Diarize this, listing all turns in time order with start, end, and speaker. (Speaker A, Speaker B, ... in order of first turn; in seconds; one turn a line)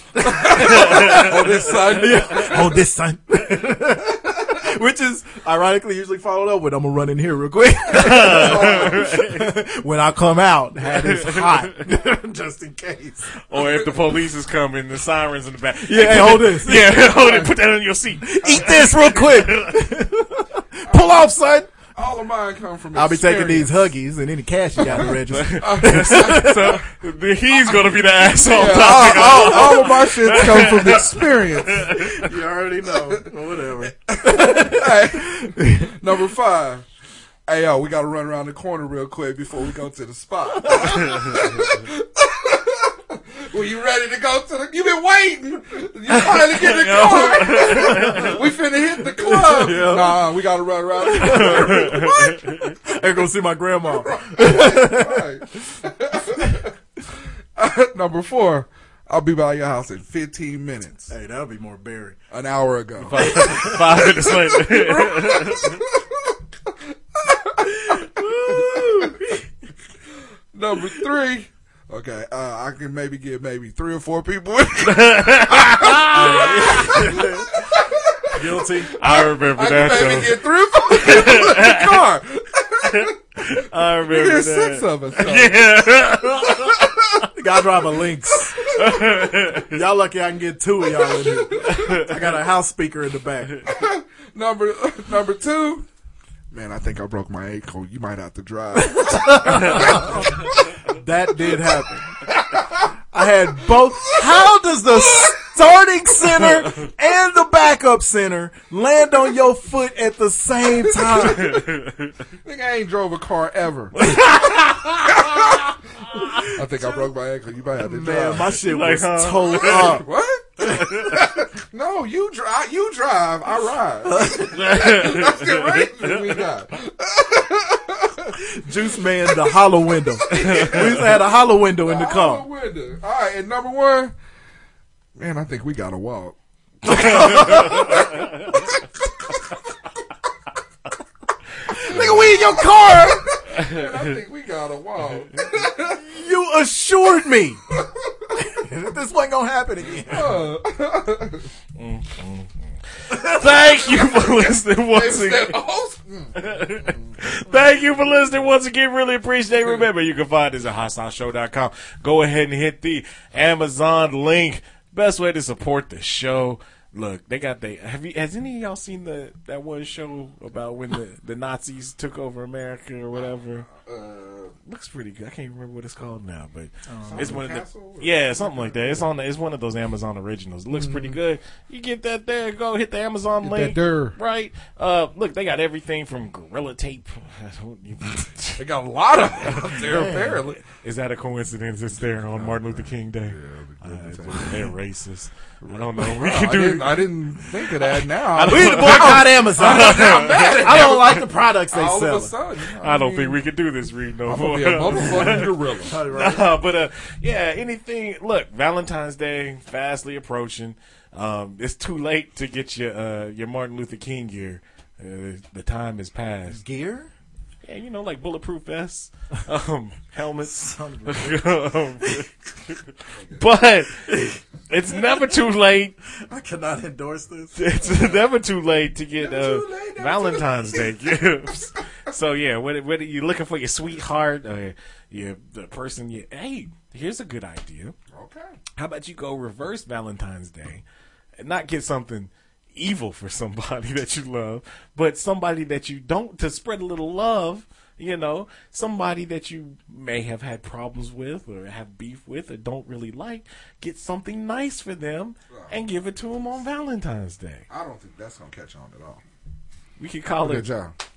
Speaker A: 0.1-13.3
Speaker B: 0.2-2.8
Speaker C: 0.7-1.3
Speaker C: 7.9-9.5
Speaker B: 8.0-9.1
Speaker C: 11.0-11.6
Speaker C: 13.5-19.9
Speaker B: 13.5-14.0
Speaker A: 15.8-17.1
Speaker A: 18.2-21.7
Speaker B: 20.9-21.3
Speaker B: 21.9-23.8
Speaker A: 22.9-26.8
Speaker B: 24.8-26.8
Speaker C: 25.3-32.1
Speaker B: 28.5-32.2
Speaker A: 28.8-31.0
Speaker A: 31.8-36.0
Speaker B: 34.1-36.9
Speaker B: 37.5-52.3
Speaker A: 40.8-41.2
Speaker C: 46.5-48.3
Speaker A: 47.4-48.4
Speaker A: 49.0-50.4
Speaker A: 51.0-55.4
Speaker C: 51.2-52.7
Speaker B: 53.8-56.7
Speaker B: 57.5-61.1
Speaker A: 61.1-62.2
Speaker B: 62.3-66.3
Speaker C: 63.0-65.8
Speaker A: 63.1-64.1
Speaker B: 67.2-69.1
Speaker A: 67.6-69.5
Speaker B: 70.5-83.2
Speaker C: 74.8-77.3
Speaker A: 75.9-77.6
Speaker A: 78.3-79.0
Speaker C: 79.0-82.0
Speaker C: 82.8-87.0
Speaker B: 84.0-85.6
Speaker A: 87.3-88.5
Speaker C: 88.7-89.8
Speaker A: 89.5-93.6
Speaker B: 91.2-91.8
Speaker C: 91.6-92.1
Speaker B: 93.7-95.8
Speaker B: 96.5-100.5
Speaker A: 98.7-100.3
Speaker A: 100.9-102.1
Speaker B: 102.5-102.8
Speaker A: 103.1-111.6
Speaker B: 110.9-111.6
Speaker C: 111.4-112.1
Speaker B: 112.4-114.0
Speaker C: 114.0-115.1
Speaker B: 115.0-115.8
Speaker B: 116.4-118.5
Speaker A: 117.8-120.0
Speaker C: 118.6-119.9
Speaker B: 119.5-128.3
Speaker A: 120.6-121.1
Speaker C: 120.7-121.1
Speaker A: 124.1-124.5
Speaker C: 124.4-126.1
Speaker A: 128.4-132.5
Speaker B: 130.3-131.2
Speaker C: 130.4-130.8
Speaker B: 131.8-134.1
Speaker B: 135.2-136.3
Speaker A: 136.8-138.1
Speaker C: 136.9-138.1
Speaker B: 137.1-138.5
Speaker A: 141.7-143.2
Speaker B: 141.9-146.0
Speaker C: 143.5-143.9
Speaker A: 145.9-147.6
Speaker A: 148.4-150.5
Speaker B: 149.8-151.4
Speaker C: 151.8-155.6
Speaker B: 154.9-157.1
Speaker C: 156.3-173.6
Speaker B: 173.1-174.5
Speaker C: 174.7-188.6
Speaker A: 176.9-177.4
Speaker B: 177.1-179.1
Speaker B: 180.7-181.2
Speaker B: 183.4-184.2
Speaker B: 188.6-190.6
Speaker C: 189.5-189.8
Speaker A: 189.8-190.4
Speaker C: 190.6-197.1
Speaker B: 192.0-194.7
Speaker B: 195.6-203.4
Speaker C: 197.8-201.1
Speaker A: 198.4-202.3
Speaker C: 202.8-216.6
Speaker B: 204.2-205.9
Speaker A: 205.3-206.5
Speaker A: 216.5-217.1
Speaker C: 217.7-225.9
Speaker A: 220.4-221.4
Speaker B: 223.1-223.4
Speaker A: 224.1-224.4
Speaker A: 226.2-227.7
Speaker C: 227.6-237.9
Speaker B: 229.2-230.9
Speaker B: 238.1-238.6
Speaker C: 238.8-240.8
Speaker C: 241.4-257.6
Speaker B: 255.5-255.8
Speaker B: 257.7-259.2
Speaker C: 260.0-260.7
Speaker B: 260.4-260.9